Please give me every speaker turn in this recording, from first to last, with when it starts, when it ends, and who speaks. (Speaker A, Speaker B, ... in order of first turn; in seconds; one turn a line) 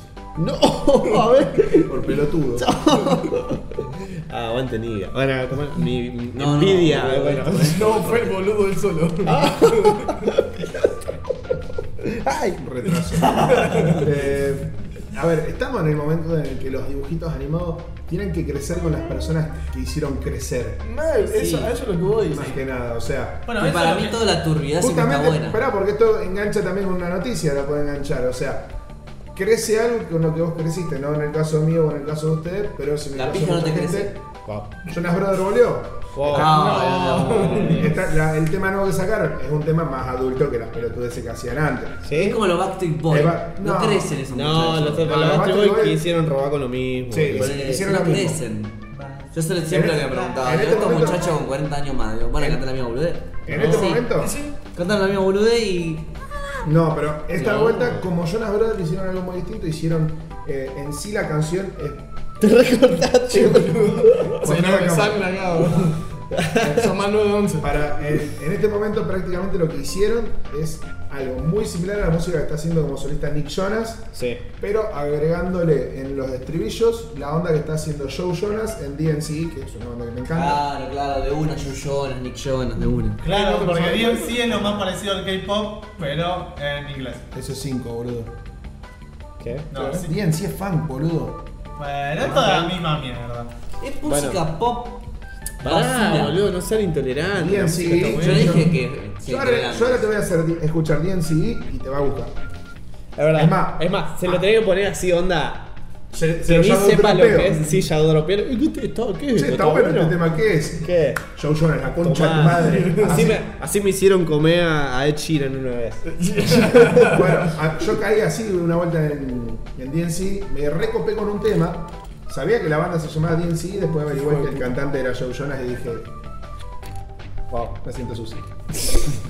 Speaker A: 0.4-8.3
Speaker B: 1.7-2.7
Speaker C: 6.3-8.3
Speaker D: 7.7-10.2
Speaker A: 9.2-11.0
Speaker A: 12.0-12.7
Speaker B: 12.6-20.8
Speaker D: 13.3-14.1
Speaker D: 20.8-22.6
Speaker C: 21.3-21.7
Speaker B: 22.2-23.4
Speaker E: 23.4-24.2
Speaker C: 23.6-25.6
Speaker B: 24.8-28.7
Speaker B: 29.3-34.1
Speaker C: 33.1-34.2
Speaker A: 34.5-34.8
Speaker B: 34.9-36.3
Speaker A: 36.1-36.8
Speaker C: 36.3-38.0
Speaker D: 36.3-38.0
Speaker A: 37.4-37.6
Speaker B: 37.7-42.1
Speaker A: 42.0-42.4
Speaker C: 42.1-45.1
Speaker B: 43.1-44.1
Speaker A: 44.3-47.6
Speaker B: 45.0-46.0
Speaker B: 47.1-48.4
Speaker C: 47.3-54.1
Speaker E: 48.9-49.4
Speaker B: 49.7-51.4
Speaker E: 50.1-51.1
Speaker B: 53.5-54.4
Speaker A: 53.5-53.9
Speaker D: 54.2-54.6
Speaker C: 54.7-56.6
Speaker B: 56.6-62.1
Speaker C: 57.4-57.9
Speaker A: 57.4-57.9
Speaker A: 62.4-64.4
Speaker D: 63.3-66.0
Speaker B: 64.4-65.3
Speaker A: 66.3-66.9
Speaker D: 66.5-67.8
Speaker B: 67.6-80.6
Speaker A: 74.1-74.4
Speaker C: 80.3-83.2
Speaker E: 83.2-87.3
Speaker D: 83.3-84.3
Speaker A: 83.7-84.7
Speaker B: 87.3-88.3
Speaker A: 89.4-89.7
Speaker E: 89.7-90.1
Speaker B: 90.0-91.4
Speaker E: 91.8-93.5
Speaker C: 92.3-92.7
Speaker C: 93.8-95.0
Speaker A: 94.0-94.4
Speaker C: 95.6-96.4
Speaker A: 95.6-98.7
Speaker B: 97.3-102.3
Speaker C: 98.2-100.1
Speaker A: 103.2-105.7
Speaker B: 103.3-104.5
Speaker B: 106.1-107.7
Speaker A: 106.4-110.2
Speaker B: 109.3-113.4
Speaker A: 110.8-111.2
Speaker A: 112.0-117.1
Speaker D: 112.7-113.3
Speaker D: 116.2-117.4
Speaker B: 117.0-126.1
Speaker D: 124.1-124.7
Speaker B: 127.5-128.6